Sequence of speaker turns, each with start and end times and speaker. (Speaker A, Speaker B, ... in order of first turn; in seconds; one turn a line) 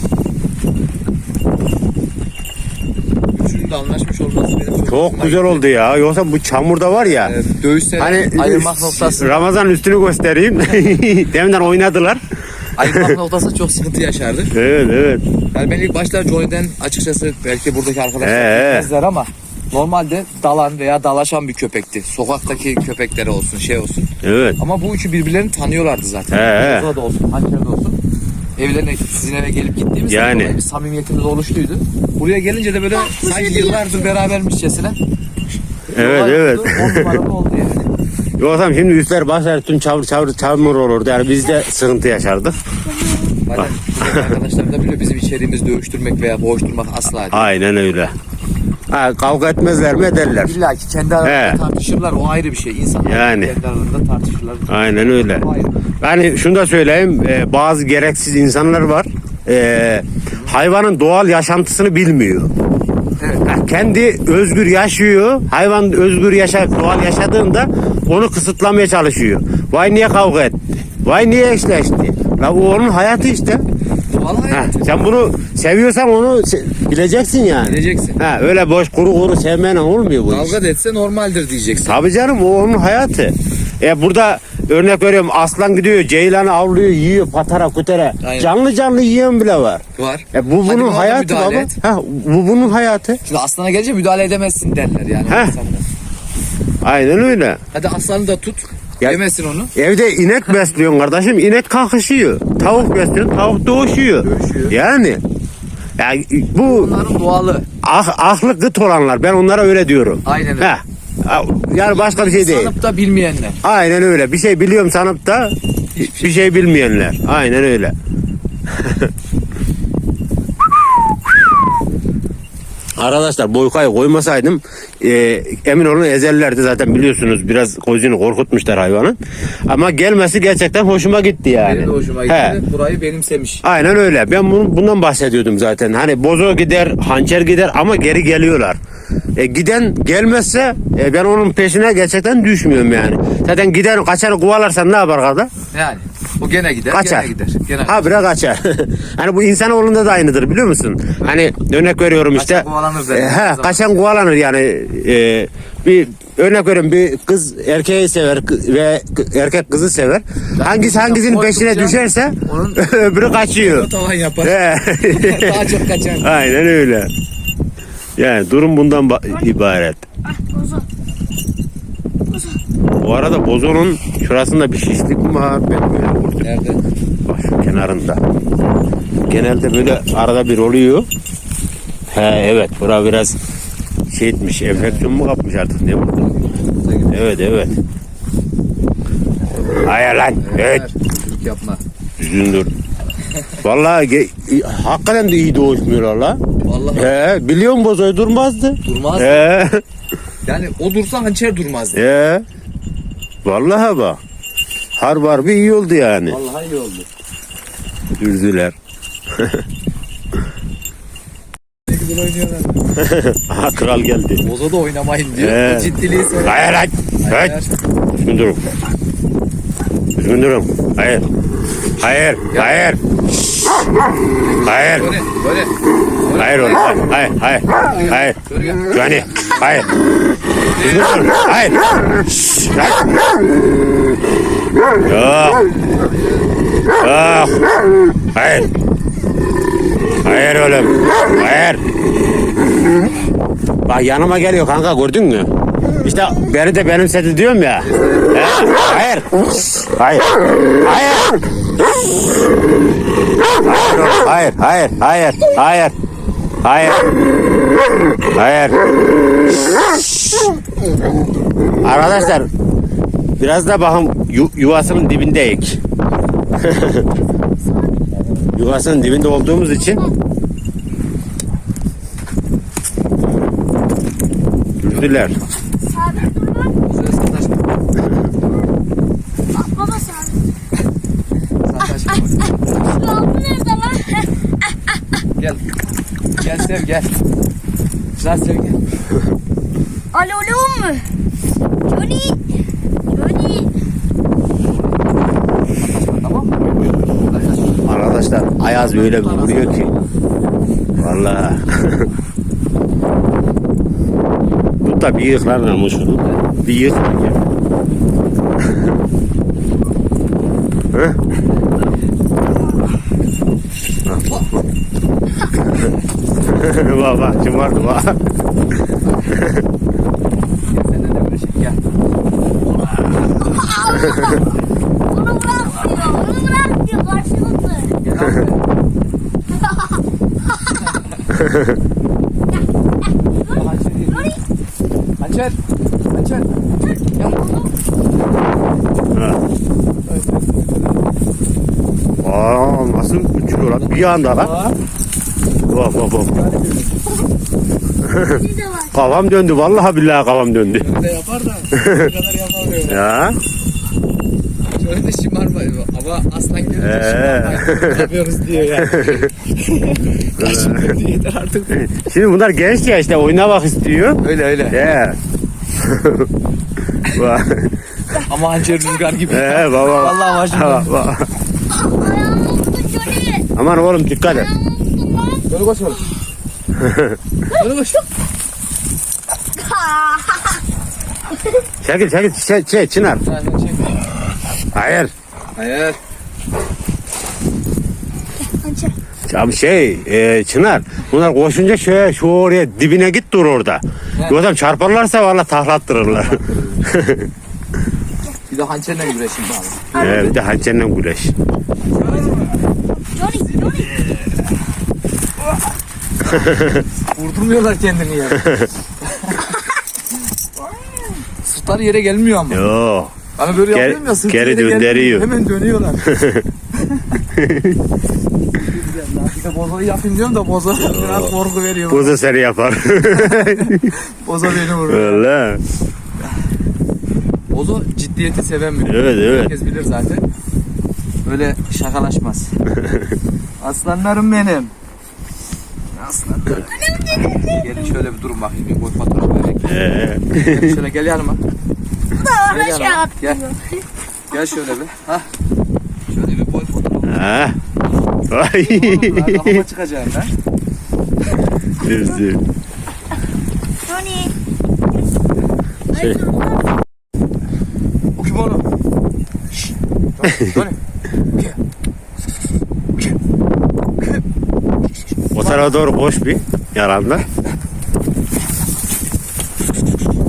Speaker A: 3.3-5.7
Speaker B: 4.9-7.3
Speaker A: 7.0-9.5
Speaker B: 8.0-12.2
Speaker A: 12.8-14.6
Speaker B: 12.9-13.2
Speaker B: 14.5-15.3
Speaker A: 15.4-28.0
Speaker B: 18.2-18.9
Speaker B: 24.2-24.6
Speaker B: 26.3-26.9
Speaker A: 28.6-35.0
Speaker B: 30.1-30.6
Speaker C: 33.1-33.9
Speaker A: 35.9-37.9
Speaker B: 36.0-37.2
Speaker B: 38.4-42.6
Speaker C: 42.9-43.4
Speaker A: 43.5-47.5
Speaker B: 47.3-48.1
Speaker B: 48.9-50.5
Speaker A: 50.3-55.9
Speaker B: 51.2-51.6
Speaker B: 53.0-53.5
Speaker B: 54.7-55.5
Speaker B: 56.0-62.5
Speaker A: 63.2-63.5
Speaker B: 63.4-73.6
Speaker A: 74.1-75.0
Speaker B: 74.5-80.6
Speaker A: 77.6-78.2
Speaker A: 80.3-82.0
Speaker B: 81.8-93.2
Speaker A: 88.2-88.5
Speaker A: 89.9-91.8
Speaker A: 93.2-95.9
Speaker B: 95.3-95.6
Speaker B: 96.8-97.6
Speaker A: 97.7-99.7
Speaker B: 99.7-105.2
Speaker A: 104.2-104.8
Speaker B: 106.0-106.9
Speaker A: 106.6-107.7
Speaker B: 107.8-112.7
Speaker A: 110.2-110.7
Speaker A: 111.8-113.6
Speaker B: 113.6-117.9
Speaker A: 115.9-116.5
Speaker B: 118.7-119.1
Speaker B: 123.0-132.6
Speaker A: 131.6-133.6
Speaker B: 133.6-138.8
Speaker B: 139.3-145.5
Speaker A: 145.7-148.2
Speaker B: 146.9-147.3
Speaker B: 147.8-163.9
Speaker A: 151.2-151.5
Speaker A: 152.3-154.1
Speaker A: 160.6-166.4
Speaker B: 164.4-165.7
Speaker B: 166.2-167.1
Speaker B: 168.2-170.1
Speaker C: 170.3-170.8
Speaker C: 172.3-172.6
Speaker B: 173.0-176.4
Speaker A: 176.4-176.8
Speaker B: 177.2-178.2
Speaker B: 179.2-181.1
Speaker B: 182.1-183.3
Speaker B: 184.1-186.3
Speaker A: 184.7-185.1
Speaker A: 186.5-187.5
Speaker B: 187.1-187.8
Speaker A: 189.5-191.8
Speaker B: 189.8-190.8
Speaker B: 192.2-192.7
Speaker B: 193.6-196.4
Speaker A: 196.6-197.3
Speaker B: 196.9-199.8
Speaker A: 198.8-199.5
Speaker A: 200.4-202.0
Speaker B: 201.9-202.4
Speaker B: 203.4-204.2
Speaker B: 205.0-206.4
Speaker A: 206.3-207.1
Speaker B: 208.2-208.8
Speaker B: 209.3-209.6
Speaker A: 211.8-212.9
Speaker B: 212.9-214.4
Speaker A: 214.4-217.7
Speaker B: 215.3-217.6
Speaker B: 218.1-218.7
Speaker B: 220.1-221.2
Speaker B: 222.0-223.0
Speaker A: 222.5-222.9
Speaker A: 224.4-227.0
Speaker B: 224.6-225.1
Speaker B: 226.3-230.0
Speaker A: 227.8-228.9
Speaker A: 230.7-231.3
Speaker B: 230.8-233.2
Speaker B: 235.0-235.8
Speaker A: 235.9-236.4
Speaker B: 236.9-238.7
Speaker B: 240.2-241.8
Speaker B: 243.8-251.4
Speaker A: 247.8-248.4
Speaker B: 253.6-255.9
Speaker B: 256.6-257.1
Speaker B: 258.2-258.9
Speaker B: 261.8-262.5
Speaker B: 263.4-265.8
Speaker B: 266.6-267.1
Speaker C: 267.6-268.1
Speaker B: 268.5-270.1
Speaker B: 274.8-275.4
Speaker A: 274.8-275.4
Speaker C: 275.9-276.8
Speaker A: 276.8-277.7
Speaker C: 279.5-280.4
Speaker A: 281.6-282.5
Speaker C: 282.7-285.0
Speaker A: 285.4-285.6
Speaker A: 286.4-287.2
Speaker A: 288.2-288.8
Speaker C: 290.1-291.1
Speaker C: 291.9-292.4
Speaker C: 293.1-293.7
Speaker A: 294.6-295.0
Speaker A: 295.8-297.8
Speaker B: 297.9-299.9
Speaker A: 298.7-300.1
Speaker B: 301.0-302.1
Speaker B: 304.8-307.4
Speaker B: 310.9-311.2
Speaker A: 314.1-314.5
Speaker B: 316.4-318.2
Speaker A: 319.0-319.4
Speaker B: 319.3-319.6
Speaker A: 320.7-321.8
Speaker C: 323.5-324.4
Speaker C: 325.1-327.9
Speaker A: 328.0-328.6
Speaker C: 329.6-330.0
Speaker A: 330.9-331.4
Speaker B: 331.5-331.7
Speaker C: 333.4-334.4
Speaker A: 333.5-334.4
Speaker A: 335.2-335.6
Speaker A: 336.1-337.4
Speaker C: 336.9-337.7
Speaker B: 339.1-339.4
Speaker A: 340.1-341.0
Speaker B: 342.2-344.6
Speaker A: 343.6-344.7
Speaker B: 345.7-346.3
Speaker A: 346.3-347.1
Speaker B: 348.0-348.4
Speaker C: 348.2-348.9
Speaker B: 348.9-350.9
Speaker A: 350.8-353.2
Speaker B: 351.7-352.1
Speaker B: 352.9-353.4
Speaker A: 354.8-361.8
Speaker B: 356.8-358.0
Speaker B: 358.8-359.2
Speaker B: 360.4-360.9
Speaker B: 361.7-365.2
Speaker A: 364.2-365.0
Speaker B: 365.8-366.3
Speaker B: 367.1-367.8
Speaker A: 368.1-370.9
Speaker B: 369.3-371.3
Speaker C: 371.7-373.5
Speaker B: 373.5-374.5
Speaker C: 374.3-375.5
Speaker A: 375.5-376.1
Speaker B: 376.8-377.2
Speaker A: 377.5-378.0
Speaker C: 379.6-380.6
Speaker B: 381.8-383.2
Speaker A: 383.2-384.1
Speaker B: 384.7-385.1
Speaker A: 385.5-386.0
Speaker C: 388.4-388.9
Speaker B: 389.3-397.3
Speaker A: 394.2-394.5
Speaker A: 396.0-397.0
Speaker A: 398.5-400.4
Speaker B: 400.0-401.3
Speaker C: 403.1-403.9
Speaker A: 403.8-404.2
Speaker B: 406.3-406.8
Speaker A: 407.0-409.5
Speaker A: 411.2-412.6
Speaker B: 412.5-415.3
Speaker A: 413.3-416.1
Speaker B: 416.0-416.5
Speaker A: 416.8-417.2
Speaker B: 417.3-417.8
Speaker A: 418.5-422.2
Speaker B: 420.8-421.4
Speaker B: 421.9-423.9
Speaker A: 423.1-425.3
Speaker B: 424.8-425.6
Speaker A: 427.5-430.2
Speaker B: 428.8-429.5
Speaker A: 431.2-432.5
Speaker B: 432.8-433.1
Speaker A: 433.6-434.7
Speaker A: 435.9-441.4
Speaker C: 436.9-437.6
Speaker B: 439.6-440.7
Speaker C: 442.1-443.8
Speaker A: 442.4-443.5
Speaker A: 444.3-445.3
Speaker A: 446.1-447.5
Speaker B: 447.1-447.6
Speaker B: 448.3-449.6
Speaker A: 448.6-450.3
Speaker B: 451.8-452.4
Speaker C: 453.8-454.3
Speaker C: 455.9-456.7
Speaker B: 456.0-456.2
Speaker A: 458.1-458.7
Speaker A: 460.1-460.8
Speaker B: 465.3-467.2
Speaker A: 465.4-465.8